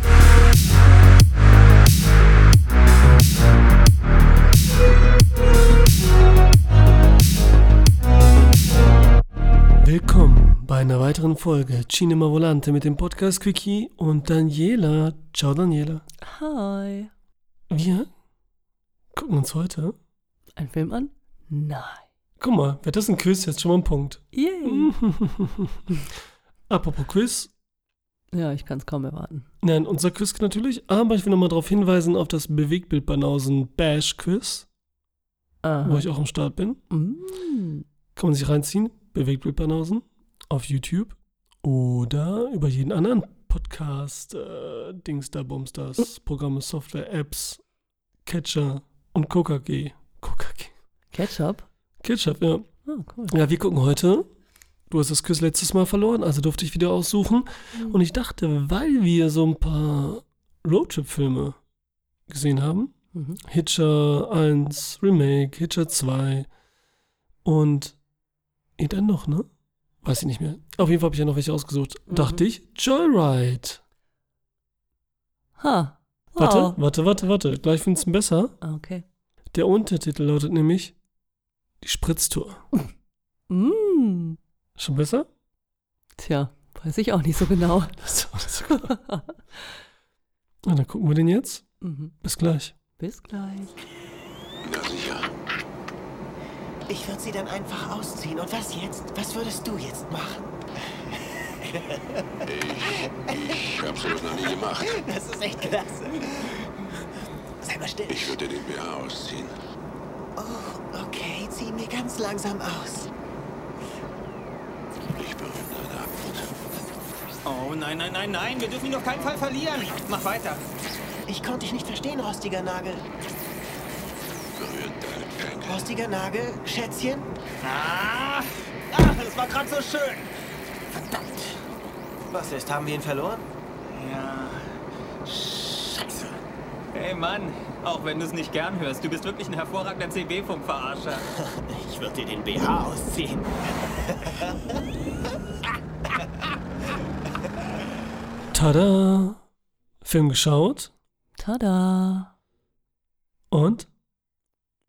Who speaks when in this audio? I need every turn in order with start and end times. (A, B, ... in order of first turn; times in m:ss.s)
0:09.8-0:16.0 A
0:16.2-0:17.1 B
0:17.7-0:18.1 A
0:19.1-0:20.0 A
0:20.6-0:22.0 B
0:22.4-0:25.8 A
0:24.3-0:24.9 B
0:26.7-0:27.5 A
0:28.3-0:29.5 B
0:29.6-0:34.7 A
0:35.6-0:36.0 B
0:35.8-0:36.8 A
0:36.9-0:37.9 B
0:38.2-0:47.6 A
0:48.2-0:50.7 A
0:51.1-0:51.7 B
0:52.0-0:52.7 A
0:52.9-0:53.3 B
0:53.3-0:54.3 A
0:54.9-1:01.6 A
1:02.3-1:06.5 A
1:03.1-1:03.4 B
1:07.4-1:08.0 A
1:08.8-1:09.5 A
1:10.0-1:13.8 A
1:12.1-1:12.4 B
1:15.6-1:16.8 B
1:16.4-1:18.6 A
1:18.6-1:19.0 B
1:19.5-1:21.0 A
1:21.8-1:22.6 A
1:23.5-1:24.4 B
1:24.8-1:25.3 A
1:26.2-1:29.6 B
1:28.0-1:28.9 A
1:30.7-1:31.6 A
1:31.8-1:32.1 B
1:32.2-1:32.7 A
1:33.0-1:33.7 B
1:34.6-1:35.3 C
1:36.9-1:42.3 D
1:42.5-1:45.0 C
1:42.8-1:46.7 D
1:47.6-1:48.4 D
1:48.1-1:49.5 C
1:50.4-1:53.1 D
1:55.1-1:56.5 C
1:57.4-2:00.6 E
2:01.3-2:03.0 D
2:04.5-2:05.9 C
2:05.6-2:07.3 D
2:07.6-2:10.3 E
2:11.1-2:11.5 D
2:12.3-2:13.5 D
2:13.9-2:14.6 E
2:15.3-2:16.1 E
2:16.9-2:21.2 E
2:21.5-2:23.5 D
2:28.5-2:29.4 A
2:30.0-2:30.9 A
2:31.4-2:32.3 B
2:33.5-2:33.9 A